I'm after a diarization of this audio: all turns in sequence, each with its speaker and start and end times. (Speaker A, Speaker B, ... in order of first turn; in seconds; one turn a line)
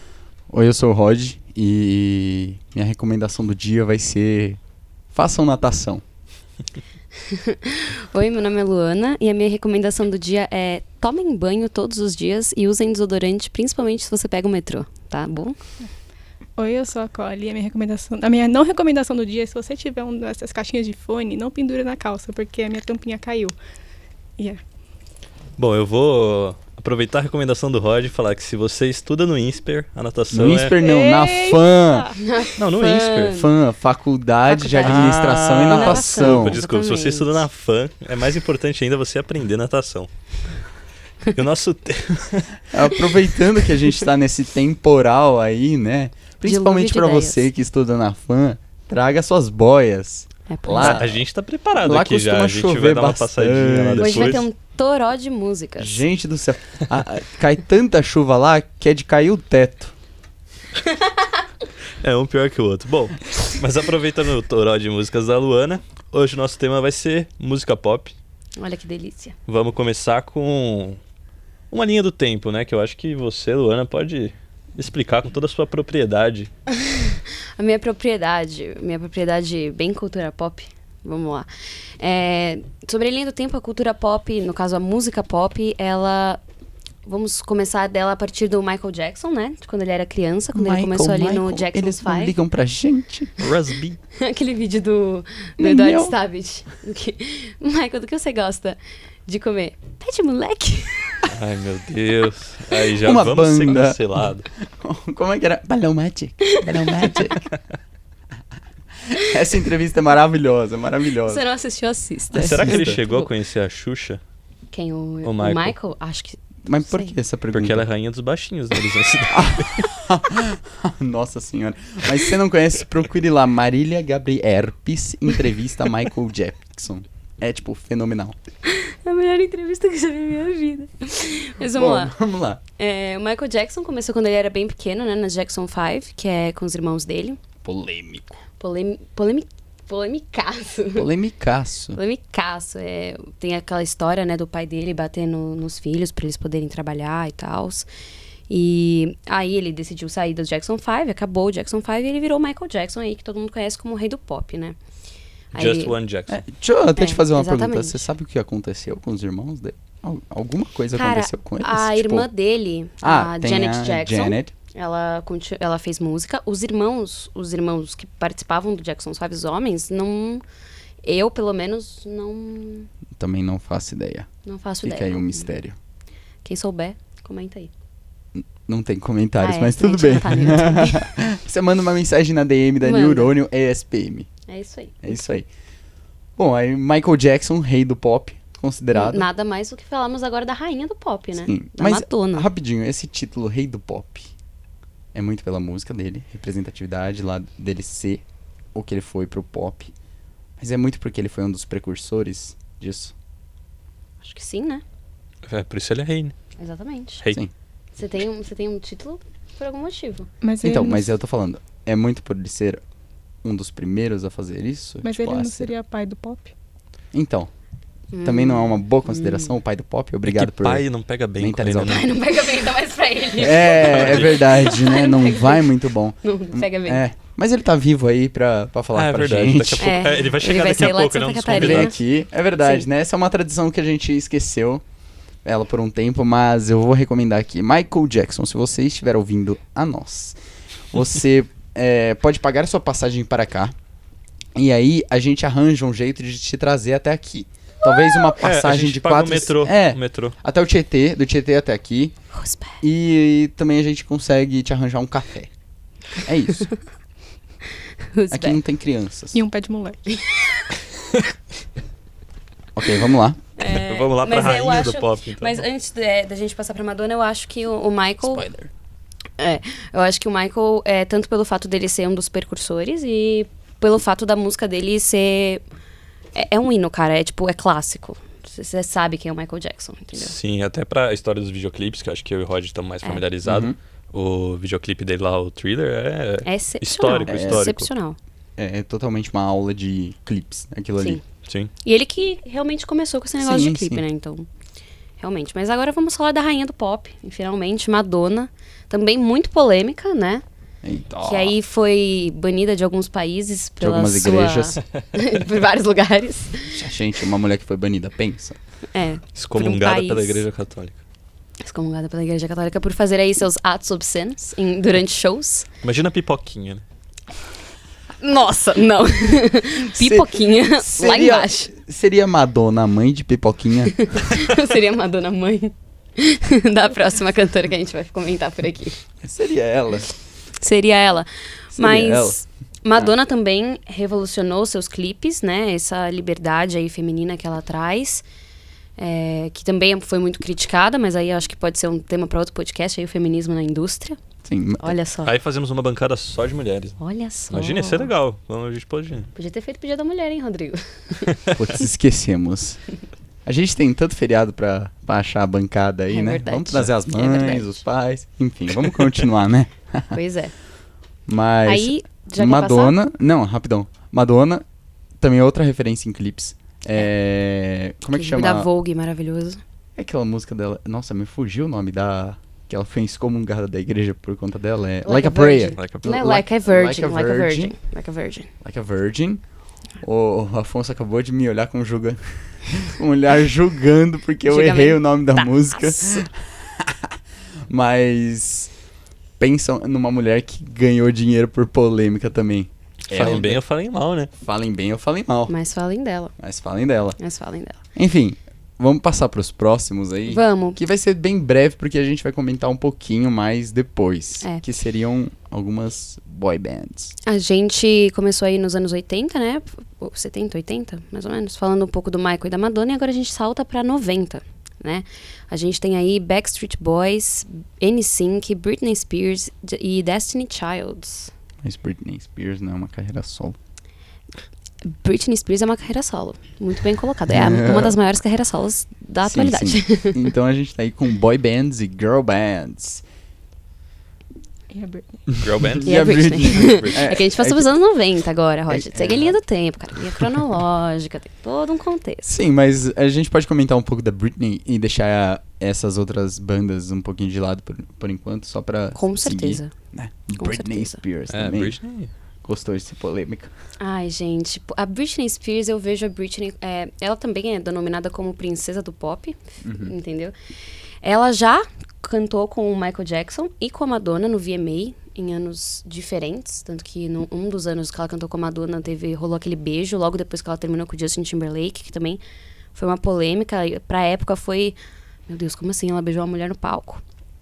Speaker A: 0.5-4.6
Speaker A: 5.1-6.0
Speaker B: 7.3-15.6
Speaker C: 16.6-23.6
Speaker D: 25.6-30.8
Speaker A: 30.3-32.2
Speaker C: 30.8-32.1
Speaker B: 32.2-33.5
Speaker D: 32.5-33.5
Speaker A: 33.2-36.6
Speaker B: 34.5-37.4
Speaker D: 34.8-40.1
Speaker D: 41.3-42.7
Speaker A: 42.7-51.2
Speaker B: 46.4-47.5
Speaker B: 50.5-51.0
Speaker D: 50.8-54.4
Speaker A: 51.8-54.4
Speaker B: 54.0-56.0
Speaker A: 55.8-59.9
Speaker D: 62.0-68.1
Speaker B: 68.6-69.3
Speaker D: 69.5-71.0
Speaker D: 71.7-76.5
Speaker B: 76.7-81.5
Speaker B: 82.0-86.4
Speaker B: 87.0-92.3
Speaker A: 90.5-93.4
Speaker D: 93.4-94.0
Speaker B: 94.1-101.2
Speaker A: 95.6-96.1
Speaker D: 101.3-104.5
Speaker A: 102.8-107.5
Speaker B: 106.5-107.2
Speaker A: 109.0-111.4
Speaker B: 111.3-113.3
Speaker D: 112.3-114.2
Speaker A: 112.4-113.0
Speaker B: 114.7-117.1
Speaker D: 115.2-115.7
Speaker A: 116.7-117.8
Speaker D: 117.5-119.9
Speaker A: 119.3-128.4
Speaker B: 128.7-132.2
Speaker A: 131.8-132.6
Speaker B: 132.8-137.4
Speaker A: 137.6-138.4
Speaker B: 138.6-141.1
Speaker A: 141.0-142.0
Speaker B: 141.9-147.9
Speaker B: 148.5-154.8
Speaker B: 155.5-155.9
Speaker D: 155.5-156.4
Speaker A: 156.3-162.3
Speaker B: 157.0-158.0
Speaker B: 160.9-170.4
Speaker A: 163.0-164.5
Speaker B: 171.0-172.9
Speaker A: 173.1-174.3
Speaker B: 174.4-175.5
Speaker A: 174.8-175.8
Speaker B: 176.4-177.7
Speaker A: 178.4-184.3
Speaker B: 179.4-181.1
Speaker B: 182.8-183.3
Speaker B: 184.5-185.2
Speaker A: 185.0-185.5
Speaker A: 186.4-189.3
Speaker B: 188.9-192.5
Speaker A: 191.4-194.3
Speaker A: 195.1-198.2
Speaker A: 198.7-199.9
Speaker A: 200.6-203.1
Speaker B: 204.2-204.8
Speaker D: 205.4-206.3
Speaker B: 206.6-207.2
Speaker B: 208.0-210.3
Speaker C: 210.4-211.1
Speaker A: 210.6-212.8
Speaker A: 213.4-215.7
Speaker C: 215.0-216.5
Speaker A: 217.1-217.5
Speaker B: 218.1-219.6
Speaker A: 218.2-220.8
Speaker D: 220.2-222.1
Speaker A: 221.4-222.1
Speaker B: 221.8-227.0
Speaker A: 223.4-230.1
Speaker D: 223.5-224.5
Speaker D: 228.9-231.9
Speaker B: 229.8-232.0
Speaker A: 231.5-234.8
Speaker B: 232.6-232.9
Speaker A: 235.4-240.4
Speaker A: 240.9-243.8
Speaker A: 244.5-252.1
Speaker D: 248.4-250.3
Speaker B: 252.3-252.8
Speaker A: 252.8-255.5
Speaker A: 256.2-256.7
Speaker B: 258.1-258.6
Speaker A: 258.3-259.4
Speaker C: 259.3-260.0
Speaker A: 262.8-263.4
Speaker B: 263.6-268.4
Speaker D: 263.6-265.6
Speaker A: 268.2-268.7
Speaker B: 269.4-275.6
Speaker B: 276.3-280.3
Speaker D: 280.1-287.9
Speaker A: 283.4-283.8
Speaker B: 286.4-288.2
Speaker A: 287.3-287.6
Speaker A: 288.6-291.2
Speaker D: 291.4-291.7
Speaker B: 291.8-294.5
Speaker A: 293.4-294.0
Speaker B: 295.2-300.4
Speaker A: 300.8-301.5
Speaker B: 301.2-306.8
Speaker A: 303.8-304.8
Speaker A: 306.8-308.6
Speaker B: 308.9-310.4
Speaker D: 309.3-311.0
Speaker B: 311.6-315.7
Speaker D: 315.8-316.8
Speaker B: 318.2-321.7
Speaker A: 319.9-323.9
Speaker B: 323.9-329.0
Speaker A: 329.2-330.1
Speaker B: 330.6-338.2
Speaker A: 331.8-332.4
Speaker B: 339.0-344.2
Speaker A: 344.4-344.9
Speaker B: 344.8-345.3
Speaker D: 345.2-347.0
Speaker B: 347.0-348.1
Speaker D: 347.5-349.3
Speaker B: 349.3-351.3
Speaker A: 351.6-352.8
Speaker A: 353.4-360.2
Speaker B: 356.1-357.8
Speaker B: 360.1-360.5
Speaker A: 361.3-364.6
Speaker B: 361.6-362.9
Speaker A: 365.2-368.7
Speaker B: 368.1-369.6
Speaker A: 370.0-377.8
Speaker B: 375.0-378.5
Speaker D: 375.8-376.3
Speaker A: 378.6-379.4
Speaker A: 380.0-387.1
Speaker B: 384.4-385.9
Speaker A: 387.7-388.7
Speaker A: 389.4-393.6
Speaker D: 393.1-394.3
Speaker A: 394.4-395.5
Speaker B: 395.5-396.3
Speaker A: 396.4-397.2
Speaker B: 397.2-397.8
Speaker A: 397.9-407.1
Speaker B: 400.2-400.8
Speaker B: 407.2-421.3
Speaker A: 421.6-423.6
Speaker B: 424.9-430.3
Speaker A: 427.3-428.0
Speaker A: 429.2-433.0
Speaker C: 434.7-435.2
Speaker A: 435.3-437.7
Speaker D: 435.4-437.0
Speaker B: 435.8-442.3
Speaker A: 438.7-439.4
Speaker A: 442.3-451.8
Speaker B: 448.9-449.7
Speaker B: 450.4-451.0
Speaker D: 451.3-452.1
Speaker A: 452.4-453.5
Speaker B: 453.8-460.3
Speaker A: 459.6-459.9
Speaker B: 461.0-472.2
Speaker B: 472.8-474.8
Speaker B: 475.3-477.0